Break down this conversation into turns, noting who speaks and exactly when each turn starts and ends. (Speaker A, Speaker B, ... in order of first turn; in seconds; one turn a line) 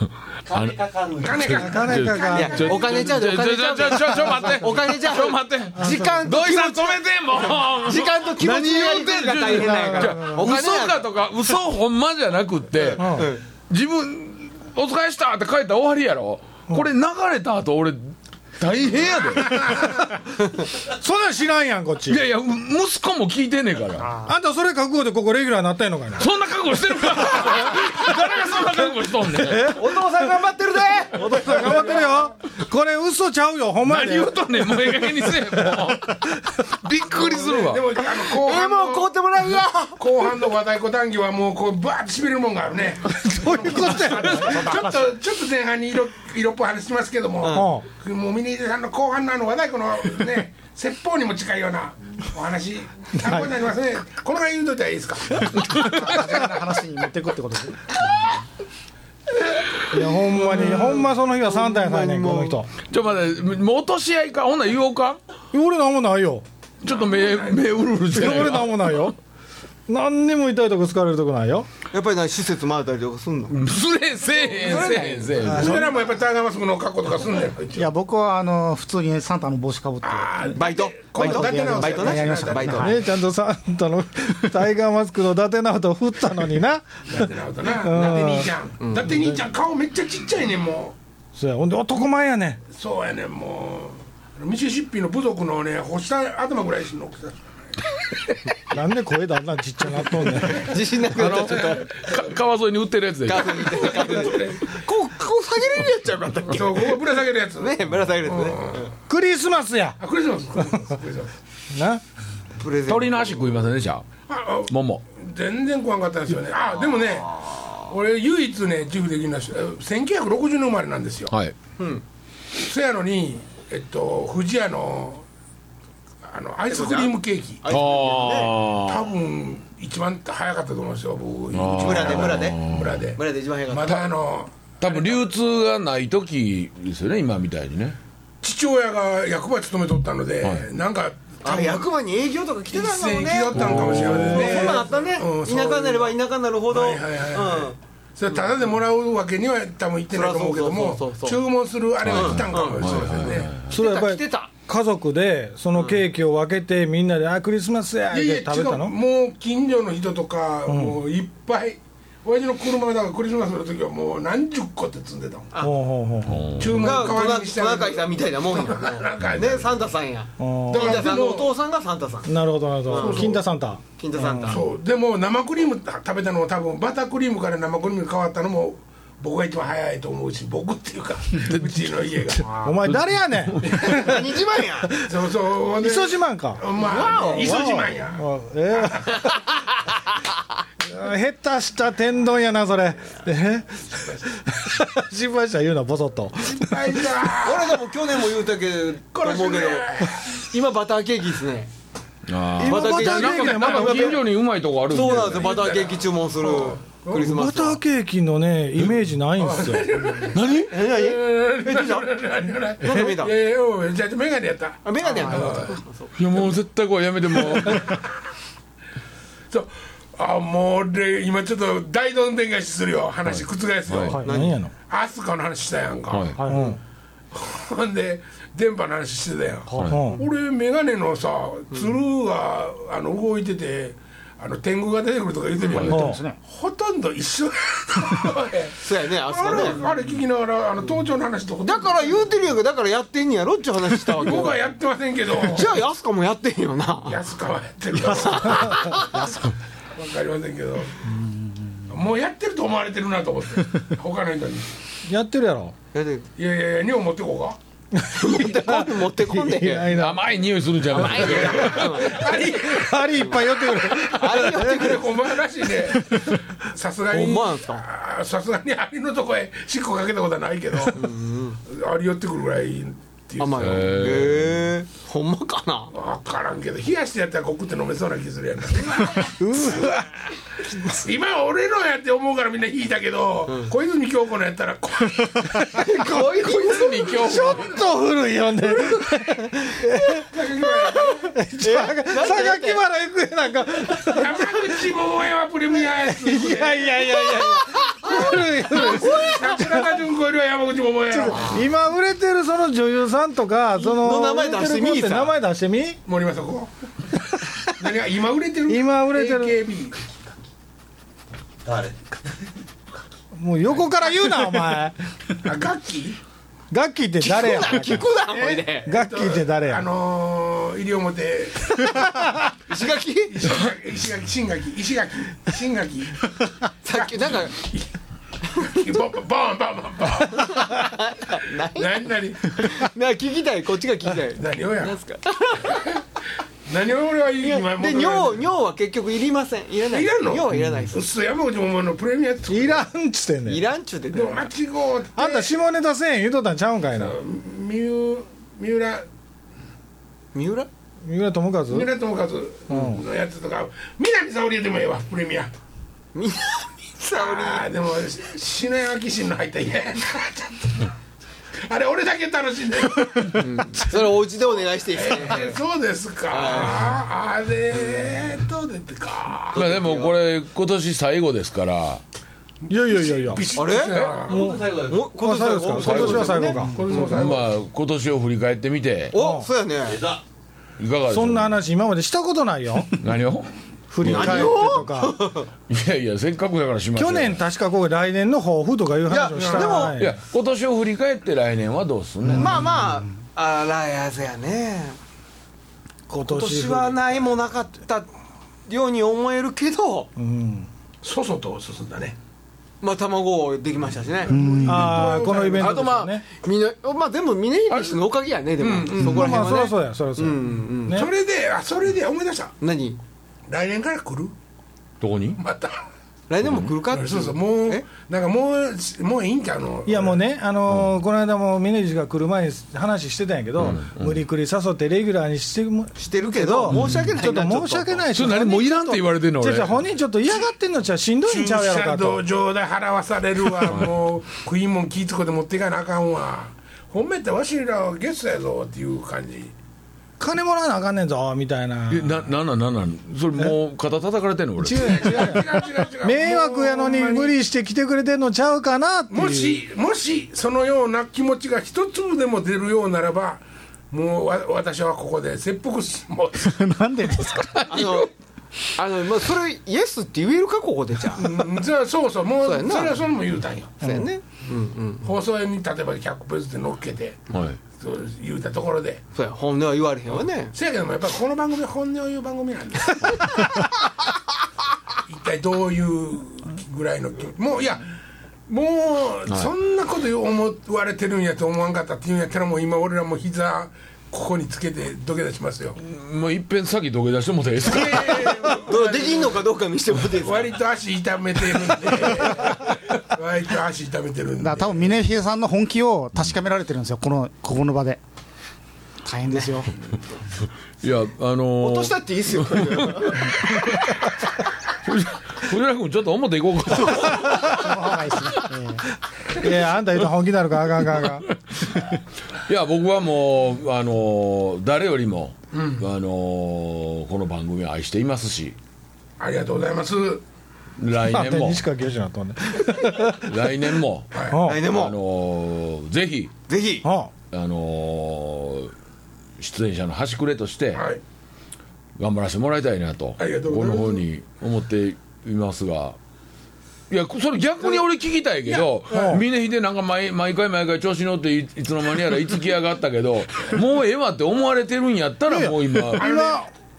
Speaker A: 0.5-19.9
Speaker B: 0.5-1.2
Speaker C: 1.2-3.1
Speaker D: 1.5-2.7
Speaker B: 2.3-11.1
Speaker D: 5.8-6.2
Speaker E: 8.4-9.2
Speaker D: 9.6-10.4
Speaker B: 12.8-13.4
Speaker D: 13.0-13.3
Speaker B: 19.1-19.5
Speaker C: 19.5-19.9
Speaker D: 19.7-20.1
Speaker D: 20.8-22.2
Speaker A: 22.1-24.1
Speaker E: 24.0-24.3
Speaker D: 24.2-26.3
Speaker A: 26.2-29.8
Speaker D: 27.4-28.1
Speaker D: 29.3-30.3
Speaker B: 29.6-32.1
Speaker D: 31.1-36.2
Speaker A: 33.9-37.9
Speaker C: 37.1-39.1
Speaker B: 38.0-40.3
Speaker C: 40.0-56.4
Speaker D: 43.1-44.9
Speaker B: 47.4-47.7
Speaker D: 47.5-47.9
Speaker D: 53.2-53.5
Speaker A: 55.7-56.1
Speaker E: 55.8-58.3
Speaker D: 59.9-62.7
Speaker B: 60.3-62.6
Speaker A: 62.9-65.2
Speaker D: 65.5-66.4
Speaker A: 66.8-69.1
Speaker C: 66.8-67.7
Speaker D: 68.1-69.1
Speaker D: 69.9-71.7
Speaker B: 71.9-73.5
Speaker A: 73.5-75.8
Speaker B: 74.6-75.5
Speaker C: 75.4-77.9
Speaker D: 75.4-75.9
Speaker E: 77.7-83.0
Speaker C: 80.0-82.9
Speaker B: 80.5-83.0
Speaker D: 82.8-88.5
Speaker C: 87.1-91.0
Speaker B: 88.8-89.2
Speaker D: 89.1-89.4
Speaker D: 91.3-92.6
Speaker C: 92.7-97.5
Speaker D: 98.7-100.7
Speaker B: 100.4-101.9
Speaker A: 101.1-104.1
Speaker B: 103.2-107.0
Speaker C: 103.4-104.7
Speaker C: 106.5-108.9
Speaker B: 107.6-108.9
Speaker D: 109.1-110.0
Speaker C: 110.0-111.3
Speaker D: 111.7-112.0
Speaker B: 112.6-113.5
Speaker A: 112.9-114.0
Speaker C: 114.3-121.3
Speaker A: 114.7-115.0
Speaker A: 121.3-121.5
Speaker C: 122.6-125.2
Speaker C: 126.2-127.6
Speaker B: 126.7-128.5
Speaker A: 127.7-129.1
Speaker C: 128.8-135.3
Speaker A: 131.5-133.1
Speaker B: 131.7-132.6
Speaker B: 133.2-134.1
Speaker A: 134.8-138.0
Speaker C: 138.4-141.9
Speaker B: 141.4-147.8
Speaker C: 142.7-146.2
Speaker A: 143.5-144.8
Speaker C: 146.7-153.5
Speaker B: 148.3-148.6
Speaker B: 150.1-151.4
Speaker A: 152.0-153.7
Speaker B: 152.1-154.5
Speaker D: 153.7-158.9
Speaker B: 155.7-156.0
Speaker C: 158.1-165.5
Speaker D: 160.7-161.0
Speaker D: 165.6-166.5
Speaker A: 166.2-167.0
Speaker C: 166.6-169.9
Speaker B: 166.8-173.3
Speaker D: 170.4-171.1
Speaker C: 170.7-171.5
Speaker D: 172.3-174.6
Speaker C: 173.0-173.4
Speaker B: 174.0-174.6
Speaker C: 174.4-182.9
Speaker A: 181.4-183.8
Speaker D: 182.6-185.1
Speaker C: 183.6-184.1
Speaker B: 183.8-184.9
Speaker C: 185.0-189.2
Speaker D: 185.7-186.6
Speaker B: 186.7-187.8
Speaker D: 187.2-189.4
Speaker D: 190.8-193.8
Speaker C: 193.9-194.2
Speaker D: 194.4-197.2
Speaker C: 196.3-197.7
Speaker B: 197.4-201.7
Speaker C: 199.1-200.3
Speaker A: 202.3-205.5
Speaker D: 202.6-204.2
Speaker B: 202.6-204.2
Speaker C: 203.5-204.1
Speaker B: 204.9-207.8
Speaker C: 204.9-207.3
Speaker D: 207.2-209.9
Speaker C: 209.4-215.8
Speaker A: 210.3-210.7
Speaker B: 210.7-212.1
Speaker B: 212.8-213.3
Speaker B: 214.8-216.1
Speaker A: 216.2-217.9
Speaker C: 217.6-218.0
Speaker C: 219.5-224.3
Speaker A: 223.2-224.2
Speaker D: 224.1-224.7
Speaker B: 224.2-224.6
Speaker C: 224.9-226.7
Speaker A: 226.1-226.4
Speaker D: 226.4-226.8
Speaker C: 227.3-242.2
Speaker D: 229.8-230.2
Speaker E: 235.8-236.4
Speaker D: 235.9-236.2
Speaker B: 238.8-239.9
Speaker B: 241.6-244.6
Speaker C: 244.1-245.8
Speaker B: 245.4-247.2
Speaker C: 247.1-249.0
Speaker B: 247.9-249.4
Speaker D: 248.7-249.2
Speaker C: 249.9-251.0
Speaker C: 251.9-254.7
Speaker D: 255.1-255.7
Speaker B: 255.9-256.3
Speaker C: 256.4-257.6
Speaker D: 257.9-260.2
Speaker B: 258.1-259.9
Speaker A: 259.9-262.1
Speaker B: 260.9-265.1
Speaker C: 260.9-271.1
Speaker D: 262.6-264.9
Speaker D: 265.9-266.4
Speaker B: 267.1-267.8
Speaker B: 270.9-271.6
Speaker C: 271.7-274.1
Speaker B: 273.4-275.9
Speaker A: 273.6-274.6
Speaker C: 275.9-279.3
Speaker D: 279.0-280.1
Speaker C: 280.8-285.8
Speaker D: 285.4-285.9
Speaker B: 285.7-287.6
Speaker A: 286.4-287.7
Speaker D: 287.1-290.3
Speaker C: 287.3-287.6
Speaker B: 288.7-292.8
Speaker C: 290.3-291.3
Speaker D: 291.3-294.6
Speaker C: 294.0-297.2
Speaker D: 295.9-299.9
Speaker B: 297.7-299.5
Speaker C: 298.0-301.6
Speaker D: 301.1-306.0
Speaker B: 303.8-305.3
Speaker C: 306.1-306.7
Speaker D: 307.1-307.7
Speaker C: 307.8-309.9
Speaker D: 308.7-309.6
Speaker D: 313.3-314.9
Speaker C: 315.4-316.2
Speaker D: 316.7-318.2
Speaker B: 317.2-318.9
Speaker C: 318.4-321.9
Speaker D: 318.8-319.9
Speaker D: 321.8-322.5
Speaker B: 322.7-323.5
Speaker C: 323.3-326.3
Speaker B: 326.8-327.5
Speaker C: 326.9-327.9
Speaker C: 328.5-330.8
Speaker B: 330.3-335.9
Speaker C: 331.6-332.8
Speaker C: 334.3-334.9
Speaker C: 335.7-336.0
Speaker C: 336.6-338.4
Speaker B: 337.4-341.0
Speaker C: 339.9-342.9
Speaker D: 342.5-343.6
Speaker B: 343.4-344.5
Speaker C: 344.1-345.6
Speaker D: 345.1-347.1
Speaker C: 346.9-349.1
Speaker B: 350.3-350.7
Speaker D: 351.0-351.9
Speaker C: 351.7-355.5
Speaker D: 352.7-353.0
Speaker B: 356.1-357.7
Speaker C: 357.1-360.9
Speaker C: 361.6-364.0
Speaker B: 363.3-365.6
Speaker C: 364.9-369.8
Speaker B: 366.3-367.0
Speaker B: 369.5-370.1
Speaker A: 369.5-372.0
Speaker C: 372.6-374.5
Speaker D: 372.7-373.5
Speaker B: 373.5-377.1
Speaker D: 374.3-377.0
Speaker A: 375.8-379.1
Speaker C: 376.3-377.5
Speaker B: 379.1-380.1
Speaker D: 379.1-379.5
Speaker A: 380.8-381.6
Speaker D: 381.1-383.0
Speaker A: 383.0-383.5
Speaker D: 383.9-385.2
Speaker A: 384.0-384.8
Speaker B: 384.0-385.5
Speaker A: 385.7-387.4
Speaker D: 386.9-390.2
Speaker B: 389.1-390.0
Speaker C: 389.3-389.9
Speaker A: 390.0-392.6
Speaker B: 392.3-395.0
Speaker D: 396.1-397.2
Speaker B: 396.2-398.1
Speaker B: 398.7-400.1
Speaker D: 400.2-400.7
Speaker C: 401.0-402.2
Speaker B: 402.8-404.9
Speaker C: 404.3-405.9
Speaker E: 404.3-404.8
Speaker D: 404.4-406.2
Speaker B: 405.6-411.1
Speaker A: 405.6-405.9
Speaker C: 408.6-409.4
Speaker D: 409.0-411.1
Speaker C: 410.9-412.5
Speaker B: 412.6-413.0
Speaker C: 413.5-414.3
Speaker A: 415.0-415.4
Speaker C: 415.4-415.8
Speaker B: 416.3-417.9
Speaker A: 416.4-416.7
Speaker C: 416.8-420.2
Speaker D: 419.9-432.2
Speaker A: 423.6-424.2
Speaker B: 425.9-428.1
Speaker A: 426.7-427.1
Speaker A: 428.1-429.8
Speaker C: 431.2-439.5
Speaker D: 440.2-442.2
Speaker A: 441.9-445.2
Speaker D: 444.6-449.6
Speaker C: 444.7-447.3
Speaker C: 449.1-456.6
Speaker E: 456.4-457.7
Speaker A: 457.5-458.1
Speaker B: 457.7-458.1
Speaker B: 458.8-461.4
Speaker C: 461.1-463.8
Speaker B: 462.4-463.0
Speaker B: 463.8-465.1
Speaker C: 465.0-469.0
Speaker A: 467.3-467.6
Speaker B: 469.1-470.5
Speaker C: 470.5-473.5
Speaker C: 475.1-477.8
Speaker C: 478.5-485.8
Speaker A: 485.8-488.4
Speaker C: 487.6-489.4
Speaker B: 488.4-490.5
Speaker C: 490.1-494.9
Speaker E: 494.4-498.0
Speaker E: 499.0-499.7
Speaker B: 499.3-499.6
Speaker A: 500.8-504.0
Speaker B: 501.6-503.4
Speaker A: 504.8-507.6
Speaker B: 506.9-507.3
Speaker D: 507.2-507.6
Speaker E: 507.4-508.8
Speaker D: 509.3-511.2
Speaker A: 512.5-518.5
Speaker C: 515.5-515.8
Speaker C: 519.2-520.2
Speaker A: 520.8-521.6
Speaker D: 521.0-523.3
Speaker A: 523.0-526.3
Speaker C: 524.1-524.4
Speaker D: 524.3-524.6
Speaker B: 524.4-524.9
Speaker B: 526.5-526.9
Speaker D: 526.8-527.1
Speaker A: 527.3-528.7
Speaker A: 529.4-530.9
Speaker C: 530.7-531.0
Speaker A: 532.0-536.0
Speaker C: 533.2-534.0
Speaker A: 536.9-546.1
Speaker D: 538.9-539.2
Speaker D: 545.3-546.5
Speaker C: 546.0-546.5